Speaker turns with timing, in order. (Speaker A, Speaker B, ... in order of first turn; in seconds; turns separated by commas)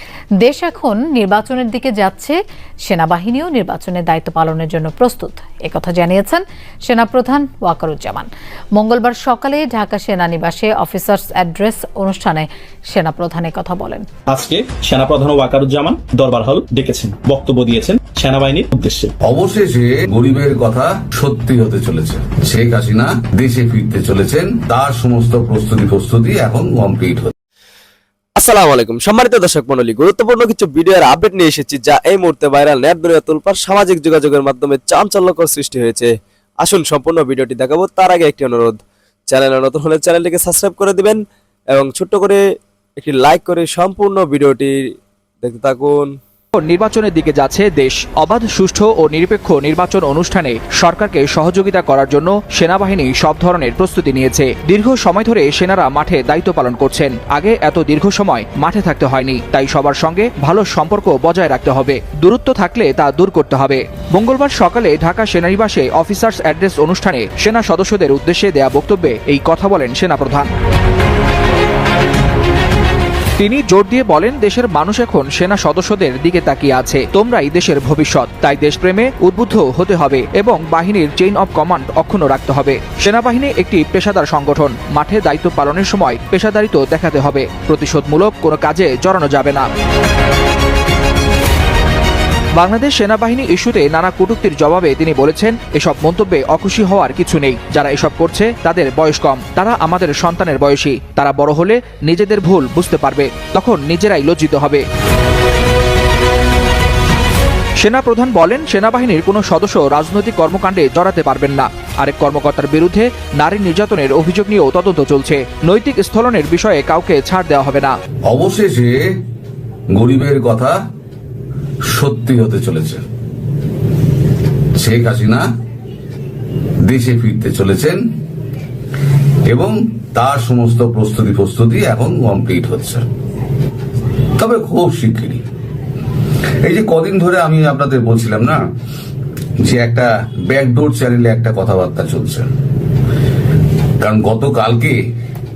Speaker A: 0.4-14.1, Speaker B: 14.3-19.1, Speaker C: 19.2-27.3, Speaker D: 28.4-41.2, Speaker D: 41.7-42.4, Speaker D: 43.0-44.9, Speaker D: 45.4-46.1, Speaker E: 46.5-70.5, Speaker E: 73.4-89.7, Speaker E: 92.6-104.8, Speaker E: 107.8-117.9, Speaker C: 118.3-119.0, Speaker C: 120.0-120.7, Speaker C: 121.9-123.0, Speaker C: 124.8-125.4, Speaker C: 126.8-128.0, Speaker C: 129.5-133.0, Speaker C: 134.4-135.4, Speaker C: 136.6-138.6, Speaker C: 139.6-142.5, Speaker C: 144.0-145.0